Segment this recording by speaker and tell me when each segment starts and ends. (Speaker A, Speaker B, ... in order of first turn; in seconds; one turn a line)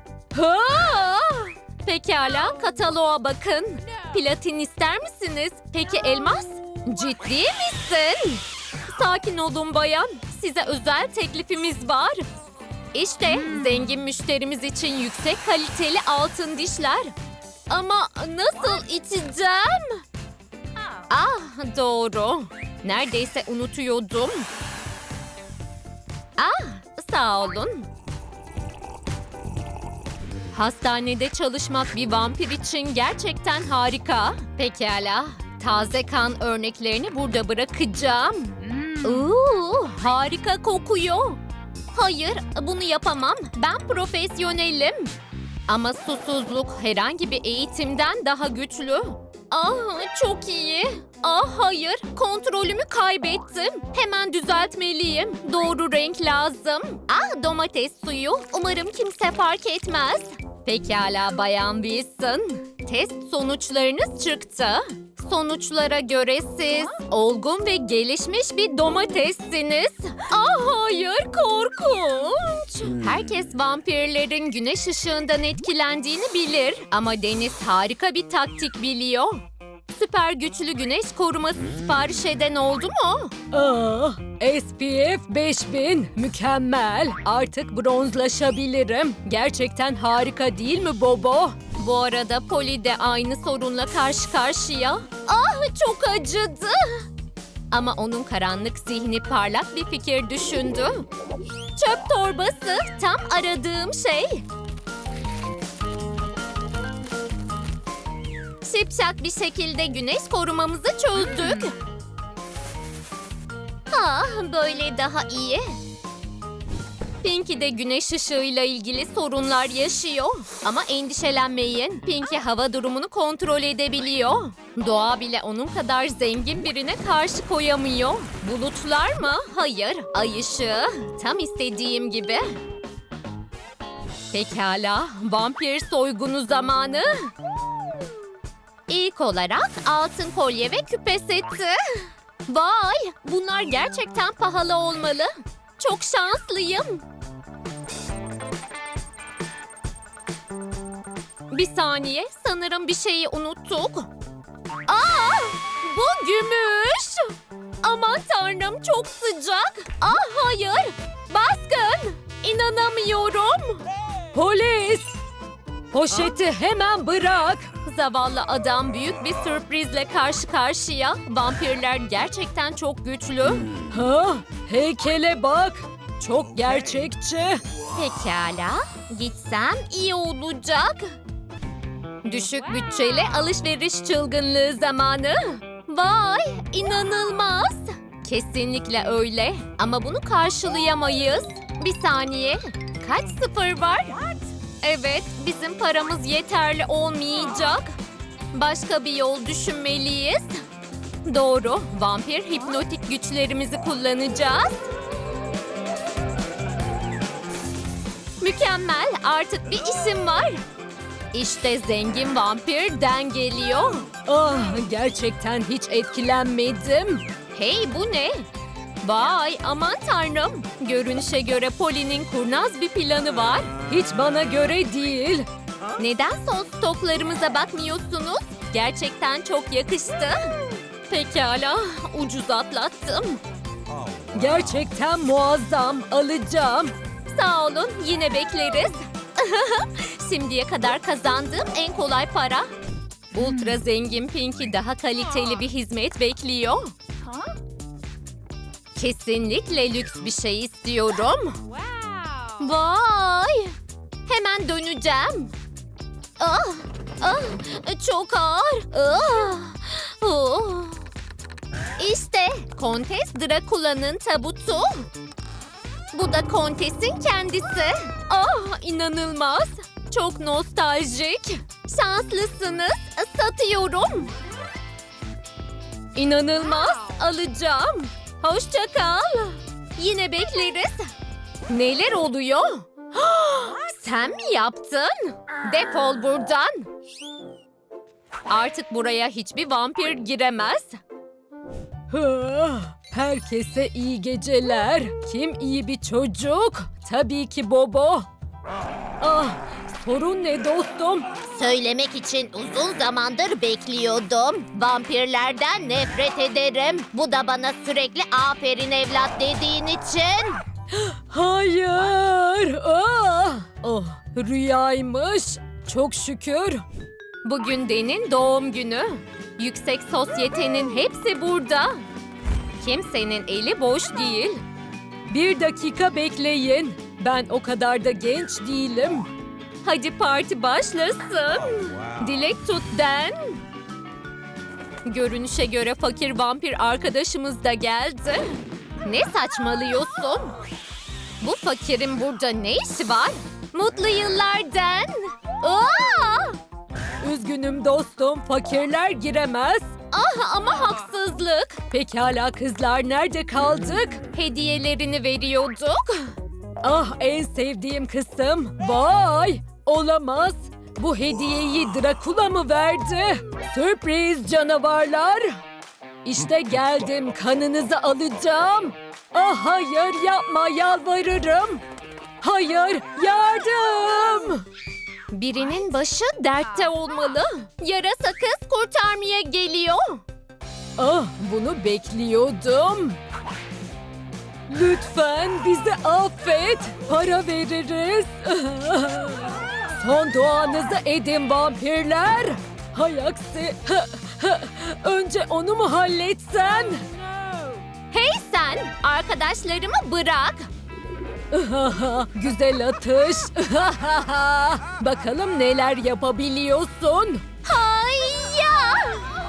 Speaker A: 0.3-12.2
Speaker A: 12.9-17.1
Speaker A: 17.7-20.0
Speaker A: 21.1-24.5
Speaker A: 26.4-27.9
Speaker A: 30.5-41.4
Speaker A: 41.9-45.1
Speaker A: 45.7-79.4
Speaker A: 79.9-83.3
Speaker B: 83.5-91.6
Speaker A: 91.7-97.0
Speaker A: 97.7-101.0
Speaker A: 101.8-104.4
Speaker A: 108.6-111.8
Speaker A: 113.9-115.7
Speaker A: 117.2-132.6
Speaker A: 134.3-137.3
Speaker A: 138.9-147.0
Speaker A: 151.5-154.1
Speaker A: 154.9-163.8
Speaker B: 164.3-165.1
Speaker B: 165.9-167.7
Speaker A: 167.8-173.7
Speaker B: 173.9-177.6
Speaker A: 177.9-181.1
Speaker A: 182.2-197.9
Speaker A: 198.5-200.6
Speaker A: 201.2-204.9
Speaker A: 208.4-210.6
Speaker A: 211.3-214.1
Speaker B: 214.2-217.2
Speaker A: 217.5-218.4
Speaker A: 219.0-223.7
Speaker B: 223.9-225.4
Speaker A: 226.0-230.6
Speaker A: 231.1-233.4
Speaker B: 234.3-236.9
Speaker A: 237.3-242.7
Speaker A: 243.3-246.9
Speaker A: 248.9-251.6
Speaker A: 252.5-253.7
Speaker A: 254.2-255.5
Speaker A: 256.4-261.0
Speaker A: 262.0-265.1
Speaker A: 266.1-274.3
Speaker A: 276.1-281.1
Speaker A: 281.7-286.9
Speaker A: 288.5-291.0
Speaker B: 292.1-298.3
Speaker B: 299.2-301.3
Speaker A: 301.4-310.6
Speaker B: 310.9-316.8
Speaker A: 317.4-322.0
Speaker A: 322.8-324.6
Speaker B: 325.3-329.3
Speaker A: 329.8-333.6
Speaker A: 335.1-340.6
Speaker A: 341.4-346.6
Speaker B: 347.2-349.9
Speaker A: 350.1-351.9
Speaker B: 351.9-354.2
Speaker A: 354.3-356.3
Speaker B: 356.8-365.6
Speaker B: 366.2-371.8
Speaker B: 372.4-374.6
Speaker A: 375.3-380.2
Speaker B: 381.0-383.2
Speaker B: 384.7-397.0
Speaker A: 398.1-400.7
Speaker B: 401.5-407.4
Speaker A: 407.6-409.3